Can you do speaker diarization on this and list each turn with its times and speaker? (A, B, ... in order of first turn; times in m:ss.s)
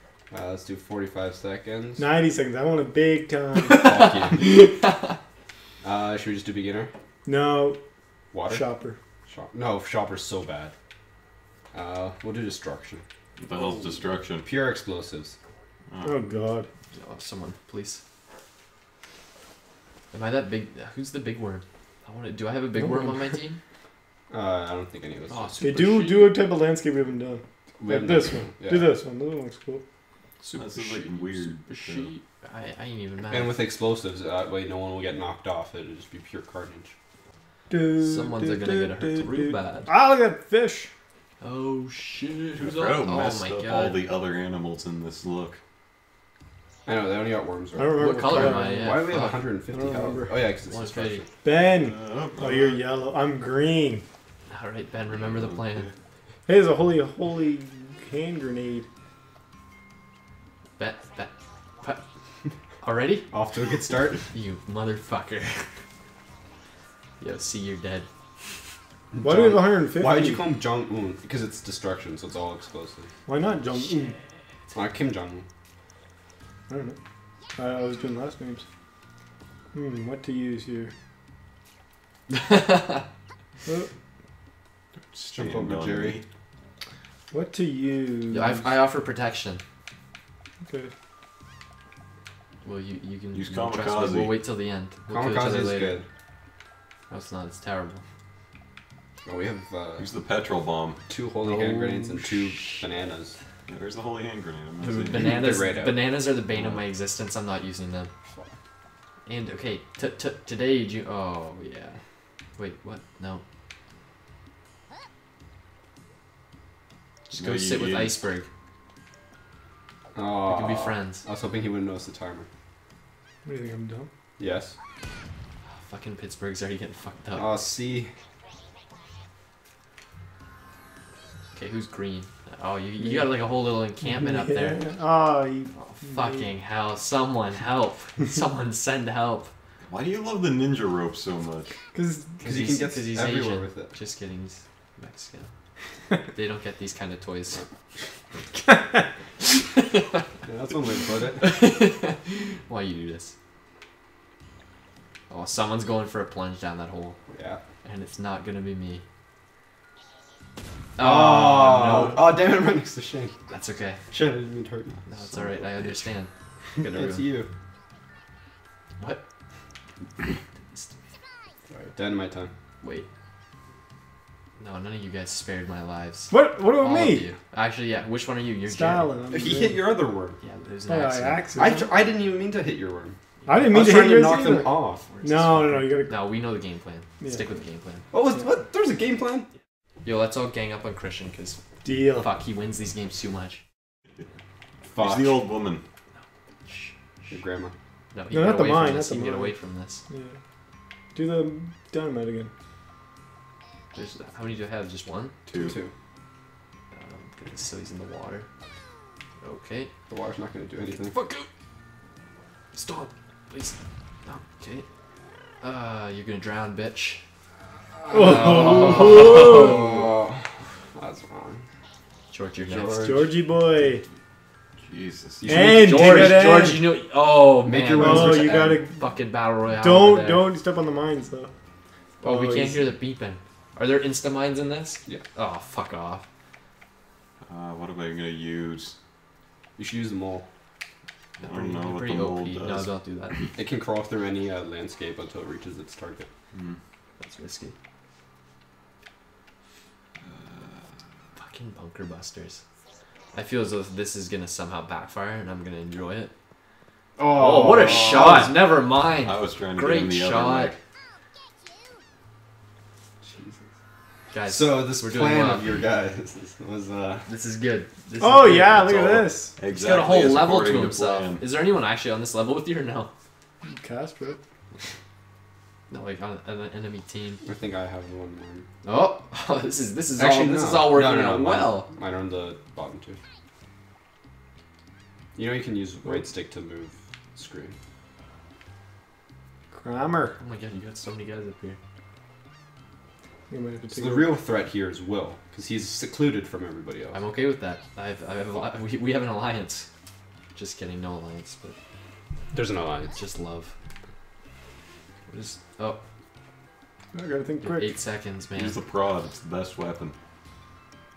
0:00.3-0:02.0 A
0:02.0-0:03.8 B
0:03.6-0:05.2 C
0:03.8-0:04.4 A
0:05.8-0:06.9 A
0:07.3-0:07.8 B
0:08.3-0:08.6 A
0:08.5-0:09.0 B
0:09.3-0:10.7 A
0:11.7-0:13.0 A
0:13.4-0:14.5 D
0:13.5-0:13.8 B
0:14.4-0:15.4 A
0:15.9-0:16.1 D
0:16.0-0:16.7 B
0:16.9-0:18.0 C
0:20.1-0:23.6 C
0:22.8-0:23.2 B
0:24.3-0:25.6 A
0:25.3-0:26.3 C
0:25.6-0:29.8 B
0:27.8-0:28.9 A
0:30.4-0:33.6 C
0:30.5-0:32.1 D
0:33.3-0:36.9 A
0:37.7-0:40.9 B
0:38.0-0:39.9 C
0:41.4-0:44.0 C
0:42.6-0:45.6 D
0:46.9-0:51.3 A
0:47.8-0:49.1 B
0:48.0-0:49.6 C
0:49.7-0:50.4 B
0:50.6-0:51.2 C
0:51.4-0:54.0 B
0:51.6-0:52.8 D
0:54.5-0:55.9 C
0:55.1-0:55.9 D
0:56.5-0:58.8 B
1:00.8-1:02.0 C
1:02.8-1:03.3 C
1:03.3-1:04.3 A
1:04.3-1:05.7 C
1:07.2-1:08.1 C
1:09.1-1:13.1 A
1:09.2-1:10.4 B
1:13.2-1:14.2 B
1:14.7-1:15.4 A
1:16.7-1:17.0 B
1:17.6-1:18.6 B
1:19.7-1:20.9 B
1:22.3-1:23.0 C
1:25.1-1:26.2 D
1:25.3-1:26.2 A
1:27.3-1:28.8 B
1:28.3-1:29.6 C
1:30.6-1:30.9 B
1:32.6-1:36.0 C
1:33.3-1:34.4 D
1:35.1-1:36.0 A
1:37.1-1:38.0 C
1:39.2-1:40.1 A
1:40.0-1:41.0 D
1:41.1-1:43.4 A
1:41.4-1:42.8 C
1:43.7-1:45.5 D
1:44.8-1:48.1 C
1:45.1-1:46.8 A
1:49.2-1:52.0 C
1:52.6-1:53.4 C
1:57.3-1:58.5 C
1:57.3-1:58.2 D
2:00.1-2:02.5 A
2:00.4-2:01.2 C
2:03.4-2:04.1 B
2:04.4-2:04.7 A
2:05.7-2:07.5 C
2:07.3-2:08.1 A
2:11.5-2:14.8 C
2:14.0-2:16.5 B
2:15.7-2:19.5 C
2:19.9-2:21.7 D
2:21.9-2:22.5 B
2:22.4-2:25.5 C
2:22.4-2:23.9 A
2:26.3-2:27.6 C
2:29.5-2:30.2 C
2:30.5-2:31.5 A
2:31.4-2:33.3 C
2:35.3-2:37.2 C
2:37.3-2:37.6 A
2:37.8-2:39.0 C
2:41.0-2:42.3 C
2:41.0-2:43.3 A
2:43.5-2:44.0 C
2:44.1-2:45.0 A
2:45.1-2:47.3 C
2:46.9-2:47.5 A
2:50.7-2:50.9 C
2:51.7-2:52.5 A
2:52.8-2:53.1 C
2:54.6-2:59.1 C
2:56.3-2:57.3 B
2:58.7-2:59.9 B
2:59.3-3:00.4 A
3:00.4-3:01.5 C
3:00.9-3:01.9 B
3:01.6-3:05.0 A
3:03.5-3:06.2 B
3:05.0-3:08.1 C
3:08.1-3:09.5 A
3:10.0-3:13.6 C
3:11.8-3:12.3 B
3:14.9-3:15.4 A
3:15.0-3:15.8 D
3:16.2-3:17.3 C
3:17.3-3:17.7 A
3:18.1-3:20.0 C
3:18.3-3:19.5 B
3:20.1-3:20.4 B
3:21.1-3:22.5 B
3:23.9-3:25.3 C
3:25.5-3:25.8 D
3:25.6-3:25.9 A
3:26.9-3:28.5 C
3:29.4-3:29.9 C
3:30.1-3:31.1 A
3:30.8-3:31.5 C
3:32.7-3:34.9 C
3:35.6-3:37.2 C
3:38.1-3:40.1 B
3:38.2-3:40.0 C
3:38.2-3:41.7 A
3:42.3-3:43.0 C
3:42.6-3:43.3 A
3:43.0-3:44.0 B
3:44.8-3:45.6 D
3:45.4-3:46.5 A
3:45.5-3:46.9 B
3:45.7-3:50.5 C
3:47.6-3:48.8 A
3:48.0-3:49.0 B
3:49.8-3:51.5 B
3:52.2-3:52.9 B
3:52.2-3:56.2 C
3:57.5-3:59.0 D
3:59.8-4:00.4 A
4:01.4-4:02.9 D
4:01.4-4:03.4 C
4:03.6-4:06.3 A
4:06.5-4:06.8 D
4:07.2-4:07.7 C
4:10.2-4:10.8 D
4:11.4-4:12.6 C
4:13.3-4:16.3 C
4:17.2-4:18.6 A
4:17.3-4:20.8 C
4:17.8-4:18.5 D
4:19.2-4:20.8 D
4:23.2-4:23.6 A
4:24.3-4:25.7 C
4:24.5-4:27.2 A
4:27.2-4:29.2 C
4:28.2-4:29.6 B
4:28.9-4:31.4 D
4:29.7-4:33.1 C
4:33.6-4:34.4 B
4:35.9-4:37.4 C
4:37.4-4:38.7 A
4:38.8-4:41.9 C
4:40.2-4:43.2 A
4:45.4-4:47.8 A
4:49.7-4:50.4 B
4:50.4-4:51.8 C
4:53.5-4:54.3 B
4:53.9-4:57.2 A
4:57.1-4:59.9 C
5:00.5-5:01.8 C
5:02.5-5:03.1 A
5:03.1-5:03.7 C
5:05.3-5:06.0 C
5:07.1-5:08.0 B
5:07.6-5:08.8 C
5:08.6-5:10.1 D